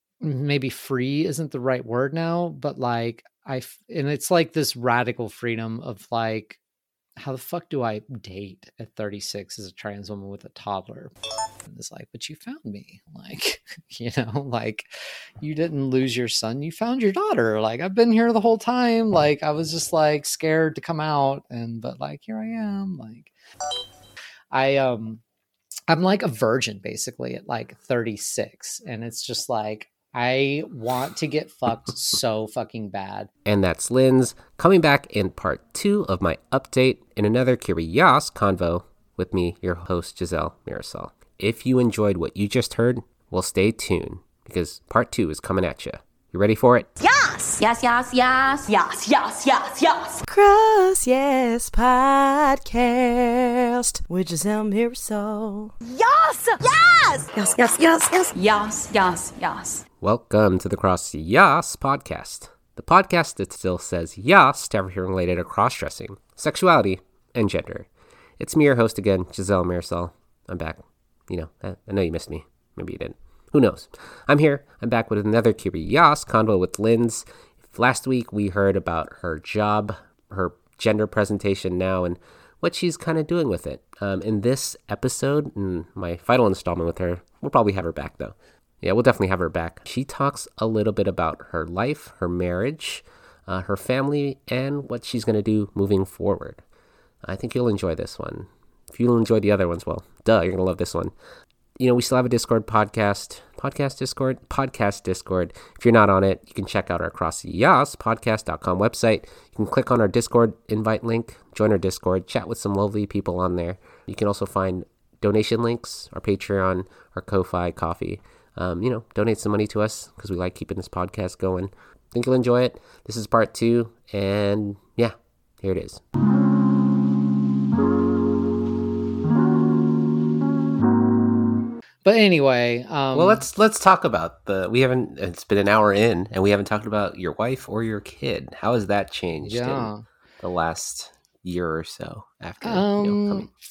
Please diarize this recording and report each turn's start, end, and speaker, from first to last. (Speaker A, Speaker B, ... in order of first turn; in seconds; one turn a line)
Speaker A: 0.2-6.6
Speaker A: 7.2-14.9
Speaker A: 15.4-23.3
Speaker A: 24.5-25.2
Speaker A: 25.9-33.3
Speaker B: 33.5-46.9
Speaker C: 47.0-50.2
Speaker D: 50.3-55.7
Speaker C: 55.8-59.8
Speaker D: 57.4-58.2
Speaker B: 60.0-67.9
Speaker B: 68.4-96.6
Speaker B: 97.2-101.1
Speaker B: 101.8-126.0
Speaker A: 132.0-133.4
Speaker B: 133.1-139.9
Speaker A: 139.4-140.0
Speaker B: 140.4-143.5
Speaker A: 142.6-143.5